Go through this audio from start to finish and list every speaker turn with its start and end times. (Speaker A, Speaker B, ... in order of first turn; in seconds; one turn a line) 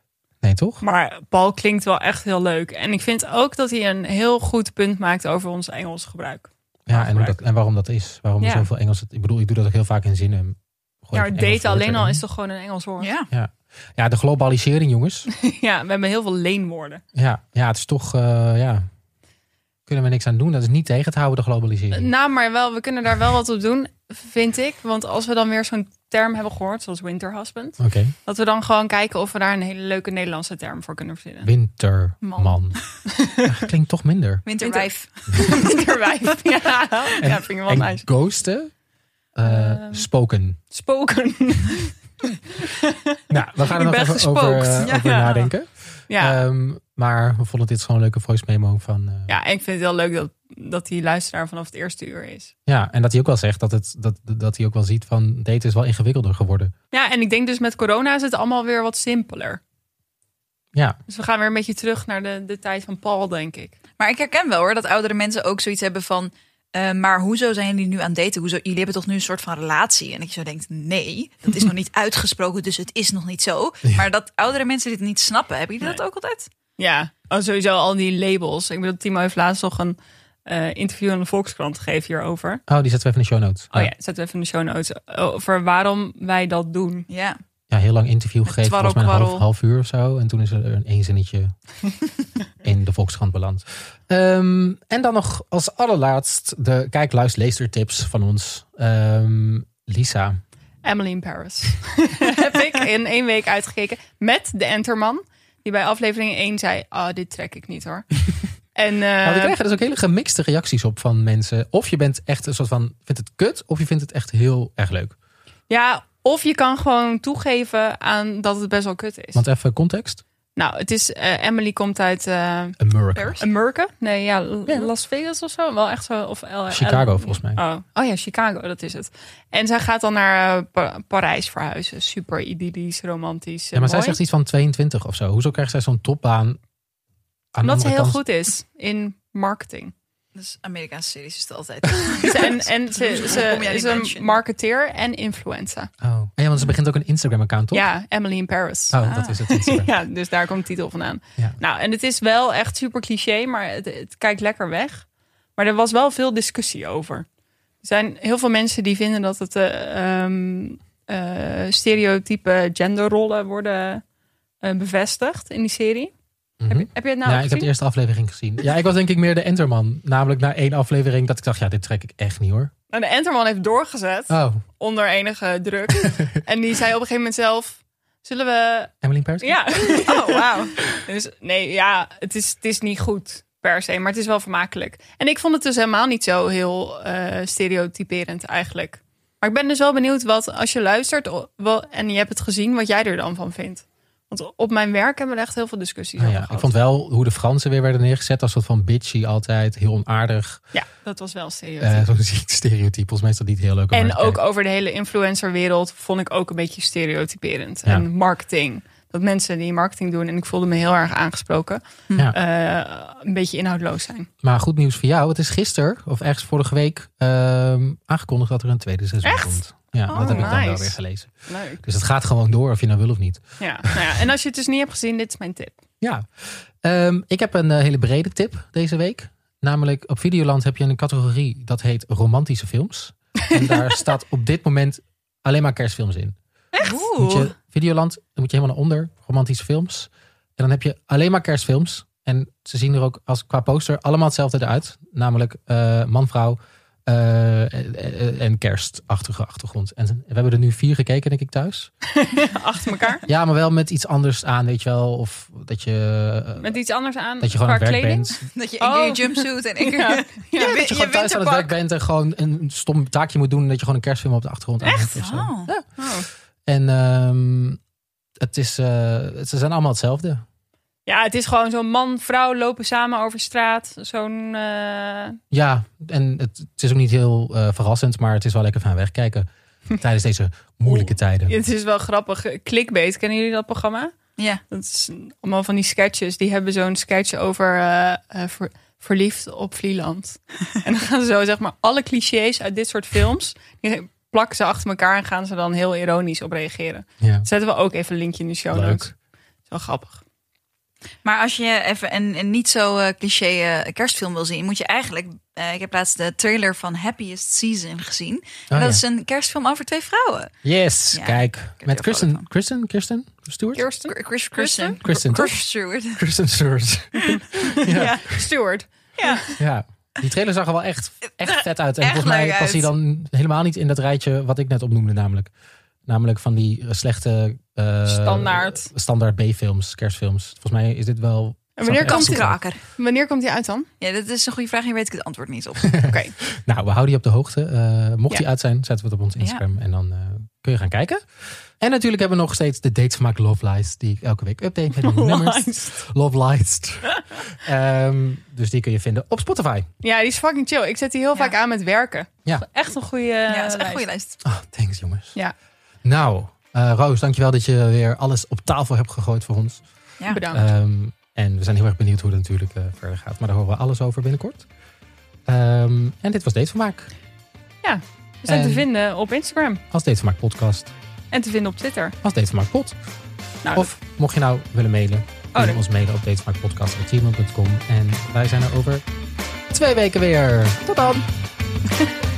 Speaker A: 0.4-0.8
Speaker B: 0.8-7.4
Speaker A: 6.9-12.2
Speaker B: 8.4-8.7
Speaker B: 11.1-13.1
Speaker C: 13.0-13.3
Speaker A: 13.3-15.3
Speaker B: 15.3-17.0
Speaker A: 17.1-18.9
Speaker A: 19.9-22.1
Speaker B: 21.9-31.5
Speaker A: 27.8-28.1
Speaker A: 31.4-32.8
Speaker C: 32.2-32.8
Speaker B: 33.1-33.5
Speaker A: 33.4-34.4
Speaker C: 34.5-35.9
Speaker B: 34.6-38.0
Speaker A: 37.2-38.7
Speaker A: 39.4-40.6
Speaker B: 39.5-40.1
Speaker B: 40.7-42.0
Speaker B: 42.5-45.5
Speaker A: 43.3-49.3
Speaker C: 44.8-45.4
Speaker B: 46.1-46.4
Speaker B: 49.3-52.5
Speaker A: 52.7-56.7
Speaker B: 56.9-59.6
Speaker B: 61.1-63.8
Speaker C: 64.0-76.5
Speaker B: 76.8-82.6
Speaker A: 82.7-83.9
Speaker B: 83.7-87.1
Speaker C: 87.1-87.4
Speaker A: 87.7-91.5
Speaker C: 88.5-89.5
Speaker A: 92.6-100.4
Speaker B: 100.8-108.2
Speaker B: 108.8-109.6
Speaker A: 109.2-115.2
Speaker B: 115.7-119.4
Speaker A: 119.3-120.2
Speaker B: 120.6-122.8
Speaker A: 122.8-123.4
Speaker C: 123.2-123.4
Speaker B: 123.4-134.2
Speaker A: 126.7-127.6
Speaker A: 133.8-136.6
Speaker A: 137.5-138.2
Speaker B: 137.6-139.9
Speaker C: 140.3-144.4
Speaker B: 142.2-145.9
Speaker A: 146.0-147.9
Speaker B: 147.7-157.3
Speaker A: 148.9-149.9
Speaker C: 149.0-149.4
Speaker B: 157.8-164.0
Speaker B: 164.6-166.1
Speaker A: 166.6-172.7
Speaker B: 166.7-167.7
Speaker B: 172.9-196.7
Speaker A: 174.3-174.6
Speaker A: 179.0-179.7
Speaker C: 180.0-180.8
Speaker A: 196.2-200.6
Speaker B: 200.7-202.1
Speaker A: 201.8-204.4
Speaker B: 203.9-214.3
Speaker A: 214.4-224.0
Speaker B: 219.2-221.8
Speaker C: 220.1-220.6
Speaker B: 223.6-225.8
Speaker A: 226.0-251.9
Speaker C: 236.7-237.5
Speaker B: 252.1-253.2
Speaker A: 253.3-256.8
Speaker B: 256.6-261.0
Speaker A: 257.4-258.4
Speaker C: 258.5-261.7
Speaker A: 260.6-265.9
Speaker C: 264.8-265.7
Speaker B: 266.0-266.3
Speaker A: 266.7-267.8
Speaker A: 268.4-270.4
Speaker B: 271.1-275.4
Speaker A: 275.5-281.6
Speaker B: 280.9-284.1
Speaker C: 284.4-284.6
Speaker B: 284.7-299.1
Speaker A: 297.2-297.5
Speaker A: 298.7-299.1
Speaker B: 299.7-300.2
Speaker C: 301.2-310.5
Speaker A: 308.7-309.0
Speaker A: 310.6-313.9
Speaker C: 311.1-312.5
Speaker B: 313.8-315.0
Speaker C: 314.1-316.2
Speaker A: 315.0-318.4
Speaker C: 317.2-318.3
Speaker B: 317.5-319.6
Speaker C: 319.2-319.5
Speaker A: 319.6-325.5
Speaker C: 321.3-322.9
Speaker A: 326.1-332.6
Speaker B: 328.1-328.9
Speaker B: 331.8-333.9
Speaker C: 332.1-332.8
Speaker C: 334.0-336.0
Speaker A: 335.9-341.2
Speaker B: 336.1-336.4
Speaker A: 341.8-349.9
Speaker B: 345.0-346.0
Speaker B: 350.0-354.0
Speaker C: 353.5-354.4
Speaker A: 354.4-355.4
Speaker A: 356.0-359.8
Speaker B: 360.3-360.7
Speaker A: 360.5-364.7
Speaker A: 365.5-367.1
Speaker B: 367.8-369.8
Speaker A: 368.5-368.9
Speaker A: 369.9-370.9
Speaker B: 371.3-372.2
Speaker A: 372.2-373.0
Speaker A: 373.7-379.1
Speaker B: 375.6-375.8
Speaker A: 379.7-381.3